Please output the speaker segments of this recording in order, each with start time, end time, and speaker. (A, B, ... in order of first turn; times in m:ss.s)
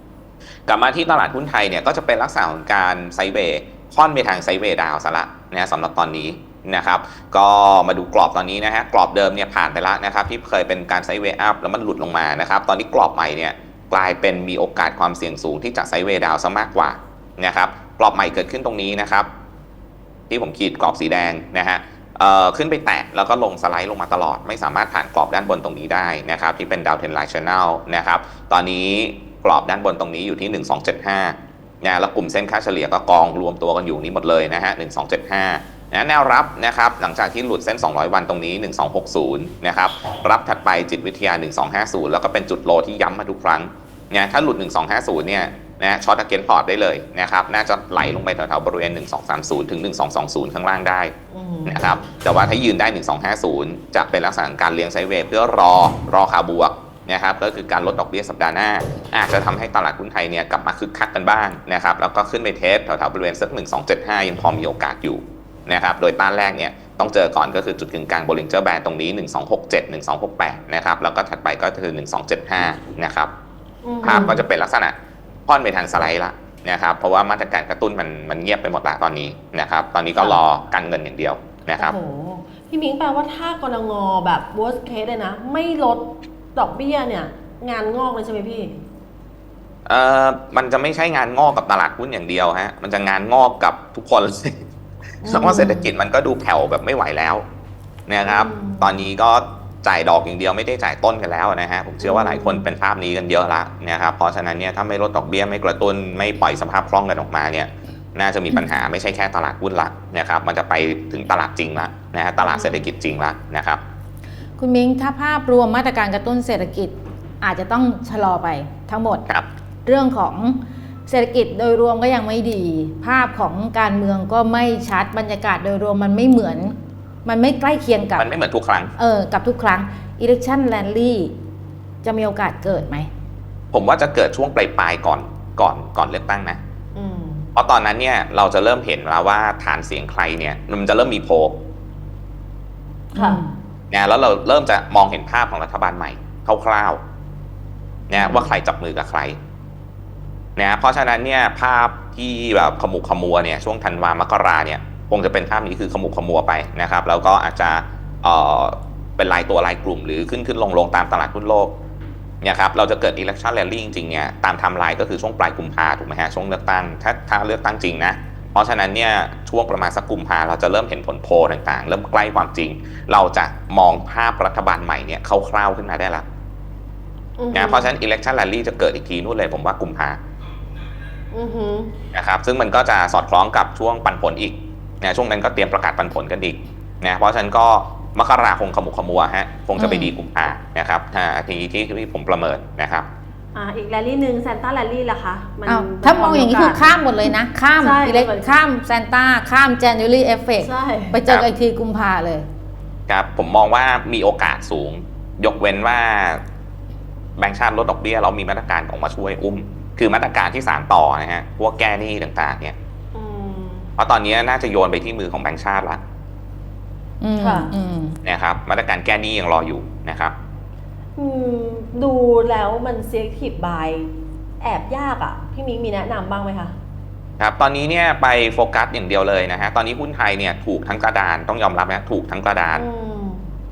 0:00.7-0:19.3 A
0:20.3-0:51.1 A
0:51.3-0:51.8 B
0:51.6-1:13.3 A
1:13.8-1:14.4 B
1:14.0-1:14.9 A
1:15.5-1:22.0 A
1:21.8-1:28.8 B
1:29.8-1:34.6 A
1:35.2-1:35.9 B
1:35.2-1:37.4 A
1:38.1-1:53.8 A
1:38.2-1:39.0 B
1:42.0-1:42.6 B
1:52.4-1:52.8 B
1:54.6-1:59.2 C
1:59.8-2:08.3 C
2:08.2-2:08.9 A
2:09.0-2:11.3 C
2:12.0-2:13.1 C
2:13.7-2:16.6 A
2:16.9-2:17.5 B
2:17.5-2:21.6 A
2:23.1-2:23.5 C
2:23.2-2:23.4 B
2:23.9-2:27.0 A
2:28.1-2:29.4 A
2:28.2-2:28.5 C
2:30.6-2:41.7 A
2:42.4-2:56.2 A
2:57.4-2:57.9 B
2:57.5-3:00.2 A
3:01.3-3:02.0 B
3:02.1-3:13.1 A
3:09.8-3:10.1 C
3:13.5-3:18.5 B
3:15.6-3:22.4 C
3:20.6-3:21.2 B
3:23.1-3:26.4 A
3:27.4-3:32.8 A
3:33.1-3:33.9 B
3:34.0-3:36.0 A
3:37.2-3:38.2 C
3:37.4-3:37.7 B
3:38.2-3:40.3 A
3:41.2-3:46.7 B
3:47.4-3:52.8 A
3:52.7-3:53.4 B